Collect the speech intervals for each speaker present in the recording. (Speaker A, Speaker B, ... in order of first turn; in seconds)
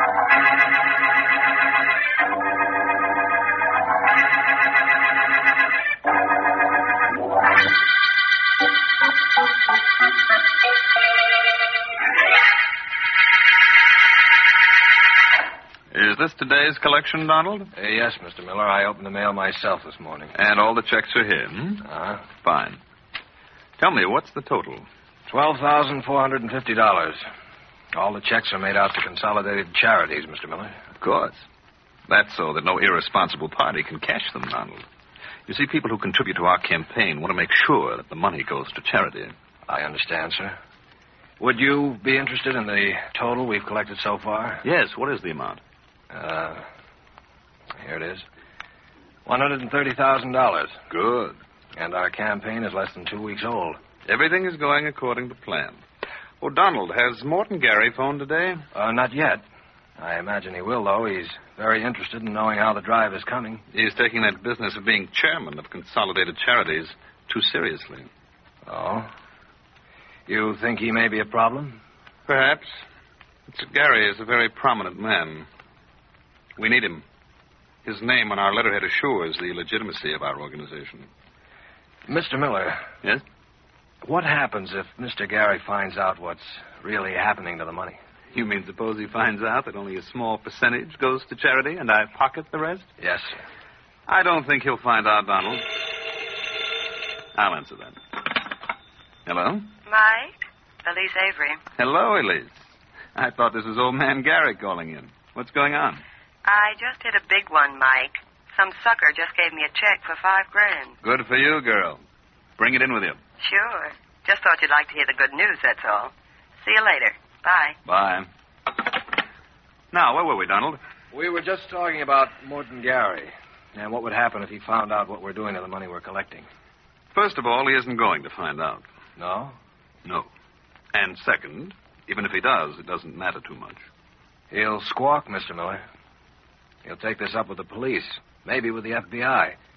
Speaker A: 15.9-17.7, 20.4-22.8, 23.8-24.9, 31.0-31.4, 32.1-34.8, 35.5-39.3, 44.6-45.6, 50.9-51.4, 54.0-55.8, 56.4-58.6, 63.7-68.1, 72.3-72.7, 73.5-75.5, 76.5-77.0, 77.8-81.1, 88.3-92.9, 94.1-95.6, 97.3-98.0, 99.2-99.6, 101.8-102.6, 103.1-106.0, 111.0-112.0, 112.6-113.2, 117.8-118.3, 119.9-120.8, 127.1-128.8, 130.9-133.8
Speaker B: 17.8-20.3, 21.8-22.3, 25.3-27.2, 27.9-30.7, 39.7-40.5, 41.4-44.6, 46.1-46.6, 47.8-48.2, 49.2-50.8, 51.8-53.8, 58.7-59.4, 60.0-63.6, 68.7-69.1, 70.3-71.8, 82.1-82.8, 84.0-88.0, 93.0-93.3, 121.1-126.5, 129.2-129.6, 134.5-135.8, 136.8-139.6
Speaker C: 99.9-101.6, 106.4-110.9, 113.4-116.1, 116.6-117.8